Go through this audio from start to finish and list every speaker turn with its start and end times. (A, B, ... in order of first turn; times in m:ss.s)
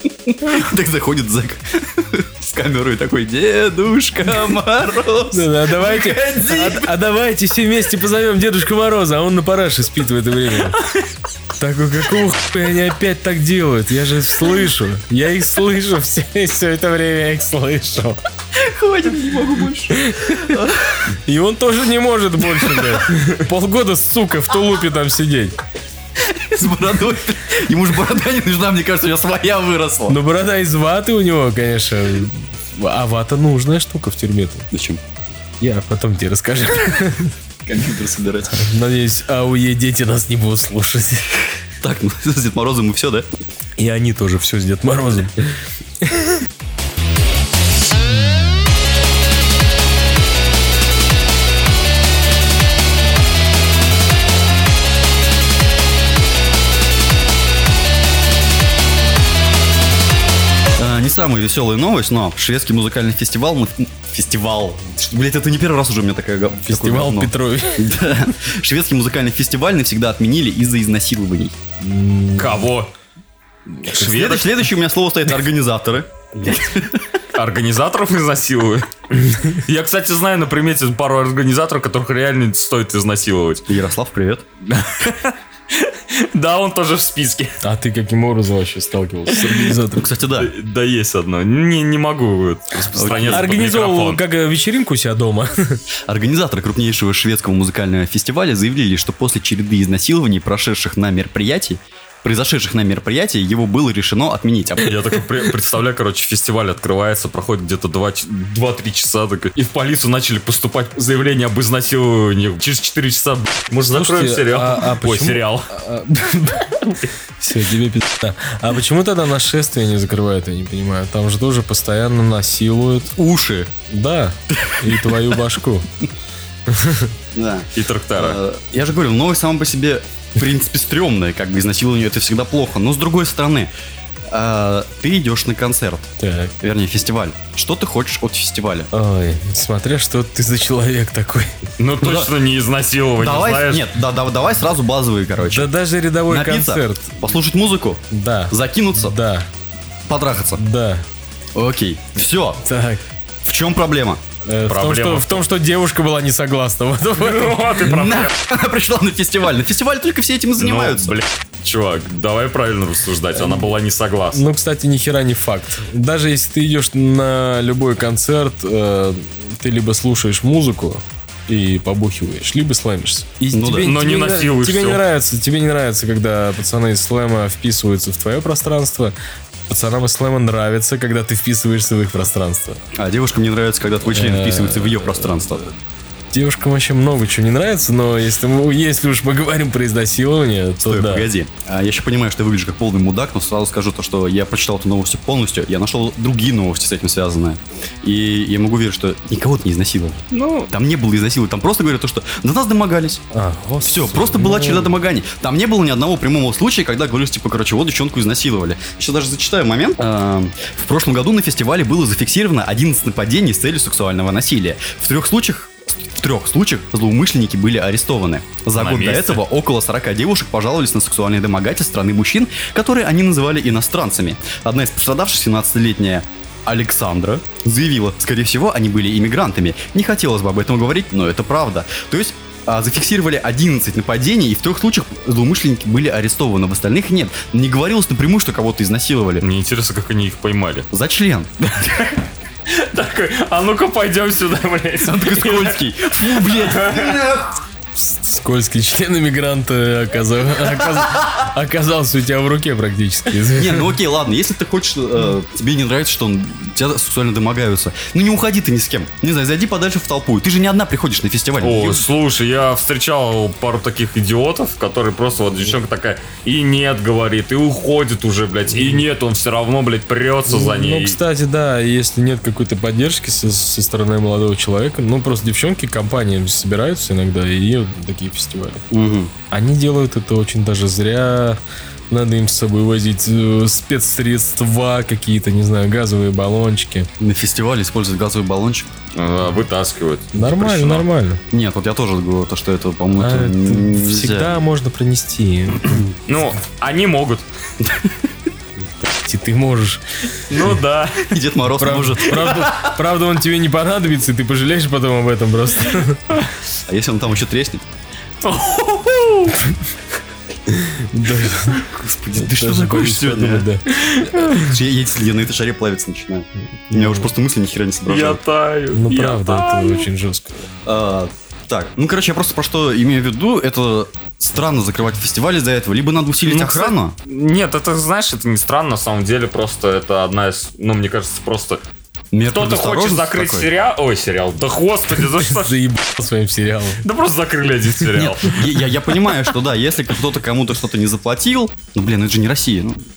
0:00.3-0:06.9 A
0:05.3-0:10.8 B
0:11.6-0:18.2 B
0:18.5-0:21.1 A
0:19.9-0:20.6 B
0:21.2-0:25.6 B
0:22.6-0:23.0 A
0:26.2-0:30.2 A
0:30.1-0:34.7 B
0:34.7-0:35.0 A
0:35.6-0:37.3 B
0:37.6-0:38.6 A
0:38.5-0:41.4 B
0:41.8-0:43.3 A
0:43.8-0:46.3 B
1:00.8-1:11.6 A
1:06.6-1:08.0 B
1:11.8-1:12.7 B
1:12.4-1:12.9 C
1:13.8-1:14.5 C
1:13.9-1:17.0 A
1:17.3-1:23.6 C
1:23.7-1:24.4 A
1:24.7-1:27.6 C
1:27.6-1:30.1 B
1:29.9-1:30.5 A
1:30.3-1:34.2 C
1:32.9-1:33.5 A
1:33.1-1:35.8 B
1:36.1-1:44.9 A
1:44.8-1:55.7 C
1:53.9-2:03.1 B
2:03.1-2:03.7 A
2:03.9-2:05.9 B
2:04.5-2:05.4 A
2:06.7-2:07.1 B
2:07.3-2:13.7 A
2:07.7-2:08.4 C
2:14.3-2:18.9 A
2:16.2-2:16.5 B
2:18.9-2:21.6 B
2:21.8-2:23.9 C
2:22.0-2:22.3 A
2:23.2-2:25.7 A
2:25.5-2:27.1 B
2:26.3-2:29.2 A
2:28.1-2:29.5 B
2:30.1-2:30.6 A
2:30.6-2:31.0 B
2:31.5-2:32.6 A
2:32.6-2:33.0 B
2:33.4-2:34.2 A
2:34.4-2:37.8 B
2:34.7-2:35.4 C
2:37.2-2:38.3 C
2:37.8-2:41.2 A
2:40.6-2:44.4 C
2:43.4-2:43.7 B
2:44.3-2:59.1 B
2:53.5-2:53.9 A
2:53.8-2:55.0 C
2:59.7-3:02.8 B
3:02.9-3:05.6 A
3:04.1-3:05.7 B
3:06.3-3:11.3 B
3:10.8-3:23.2 A
3:20.3-3:20.7 C
3:23.3-3:24.9 B
3:23.8-3:59.4 A
3:38.7-3:39.4 C
3:59.4-4:00.9 C
4:00.9-4:02.2 A
4:02.7-4:07.2 C
4:05.0-4:07.6 A
4:08.0-4:13.9 B
4:13.5-4:22.1 A
4:21.6-4:31.2 C
4:30.5-4:38.9 B
4:38.9-4:39.3 A
4:39.5-4:47.1 B
4:47.2-4:48.9 A
4:49.1-4:51.0 C
4:50.3-4:51.4 B
4:51.5-4:54.6 A
4:53.2-4:56.0 B
4:56.3-4:57.4 C
4:57.8-4:58.1 A
4:59.0-5:00.0 B
5:00.5-5:01.3 C
5:01.2-5:03.0 A
5:01.7-5:06.3 B
5:06.9-5:07.8 A
5:08.4-5:09.6 C
5:10.7-5:14.5 B
5:11.7-5:13.7 A
5:13.9-5:14.6 C
5:14.4-5:18.4 A
5:16.9-5:17.3 B
5:18.1-5:20.1 C
5:18.9-5:20.7 B
5:20.8-5:27.1 A
5:26.4-5:31.8 C
5:32.3-5:33.7 A
5:32.5-5:35.8 C
5:35.2-5:37.0 B
5:37.0-5:38.6 C
5:38.1-5:43.0 A